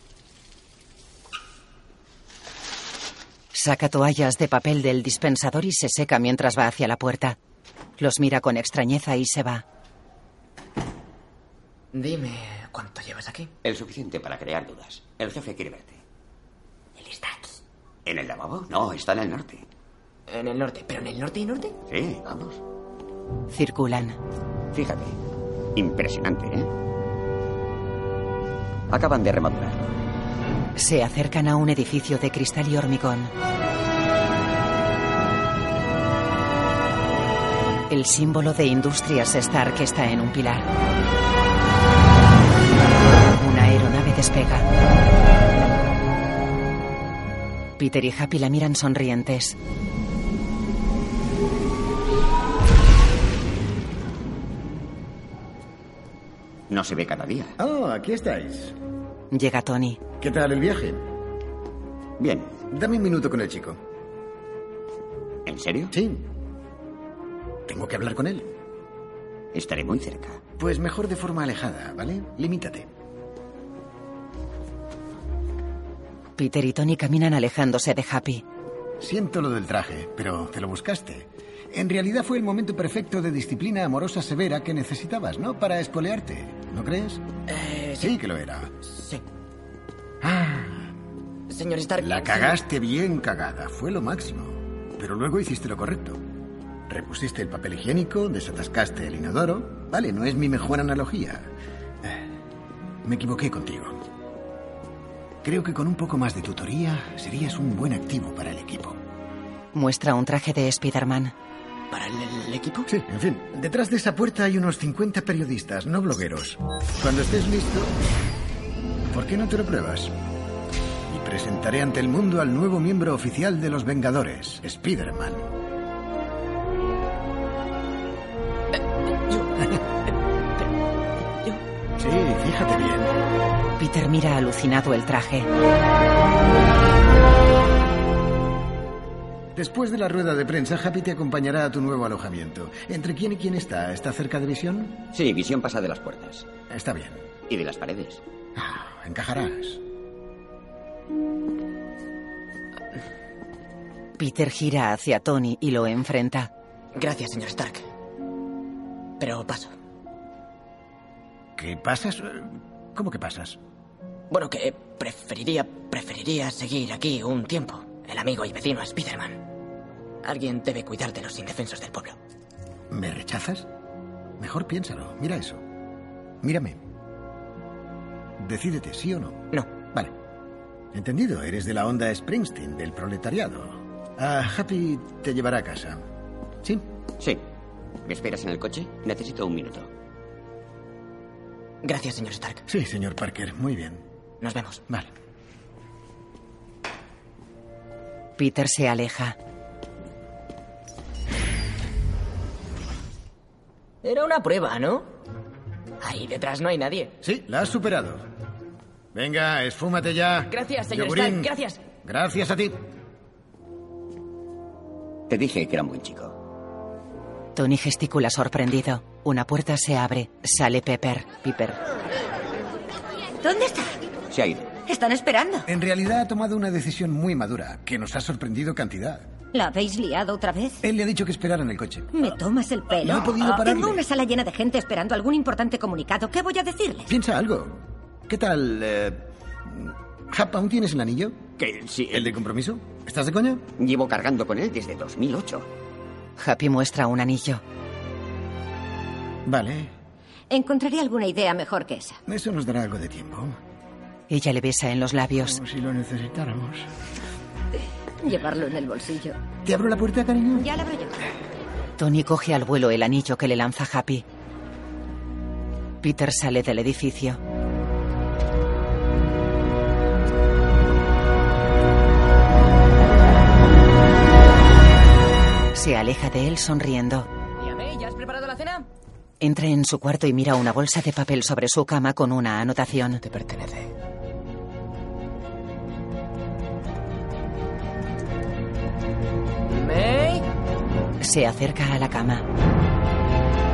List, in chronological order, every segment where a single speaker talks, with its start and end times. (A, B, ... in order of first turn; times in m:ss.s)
0:03.5-0:07.4 A
0:08.0-0:09.6 A
0:12.0-0:13.5 B
0:13.6-0:16.0 C
0:17.0-0:17.5 B
0:18.0-0:19.6 C
0:20.4-0:21.7 B
0:21.9-0:22.6 C
0:23.5-0:24.2 A
0:24.7-0:25.1 C
0:25.8-0:26.7 C
0:28.9-0:29.9 C
0:30.8-0:33.3 A
0:37.9-0:40.6 A
0:43.3-0:44.6 A
0:47.8-0:49.6 A
0:56.7-0:57.5 C
0:57.6-0:58.7 D
0:59.3-1:00.0 A
1:00.2-1:01.0 D
1:02.2-1:02.6 C
1:02.7-1:03.8 D
1:05.4-1:05.9 C
1:05.9-1:06.2 D
1:07.7-1:08.5 D
1:09.5-1:10.4 C
1:10.6-1:12.9 D
1:16.4-1:18.4 A
1:19.0-1:27.2 D
1:27.6-1:28.1 B
1:28.0-1:28.7 D
1:30.2-1:30.9 D
1:31.6-1:32.5 B
1:32.0-1:36.2 D
1:36.9-1:41.5 D
1:43.0-1:44.0 D
1:45.4-1:49.0 D
1:49.7-1:51.3 A
1:52.0-1:52.8 B
1:52.9-1:57.9 D
1:59.1-2:00.1 D
2:01.1-2:05.5 D
2:12.0-2:13.1 D
2:13.8-2:15.5 A
2:19.5-2:25.0 D
2:25.1-2:26.5 C
2:26.7-2:27.2 D
2:27.5-2:28.2 C
2:28.6-2:29.8 D
2:34.2-2:36.5 A
2:37.0-2:37.7 B
2:39.2-2:39.6 B
2:41.6-2:43.6 D
2:44.4-2:49.3 B
2:50.3-2:52.1 B
2:52.9-2:53.7 D
2:54.4-2:55.6 D
2:56.4-2:56.8 D
2:58.4-3:00.1 D
3:00.9-3:06.0 D
3:08.0-3:09.9 C
3:11.9-3:12.6 B
3:12.7-3:14.0 D
3:14.5-3:14.8 B
3:18.4-3:19.4 A
3:24.0-3:25.0 B
3:26.0-3:27.1 B
3:27.2-3:28.2 D
3:29.1-3:31.5 D
3:30.6-3:31.7 B
3:32.0-3:32.8 D
3:35.3-3:36.4 C
3:37.5-3:41.8 A
3:43.4-3:43.9 E
3:44.3-3:44.8 C
3:44.8-3:45.6 E
3:45.6-3:49.3 D
3:49.5-3:50.8 E
3:50.8-3:52.1 D
3:52.1-3:57.1 E
3:53.0-3:54.0 D
3:57.1-4:01.4 D
4:01.6-4:02.3 C
4:02.1-4:03.6 D
4:03.8-4:05.7 C
4:06.4-4:07.6 A
4:09.4-4:09.9 D
4:10.5-4:12.2 E
4:12.2-4:13.6 D
4:14.3-4:15.6 A
4:15.4-4:16.8 D
4:18.2-4:19.3 E
4:19.6-4:20.7 D
4:20.6-4:21.2 E
4:22.0-4:24.2 A
4:26.0-4:27.4 A
4:35.7-4:37.3 A
4:39.4-4:43.2 A
4:51.2-4:52.4 A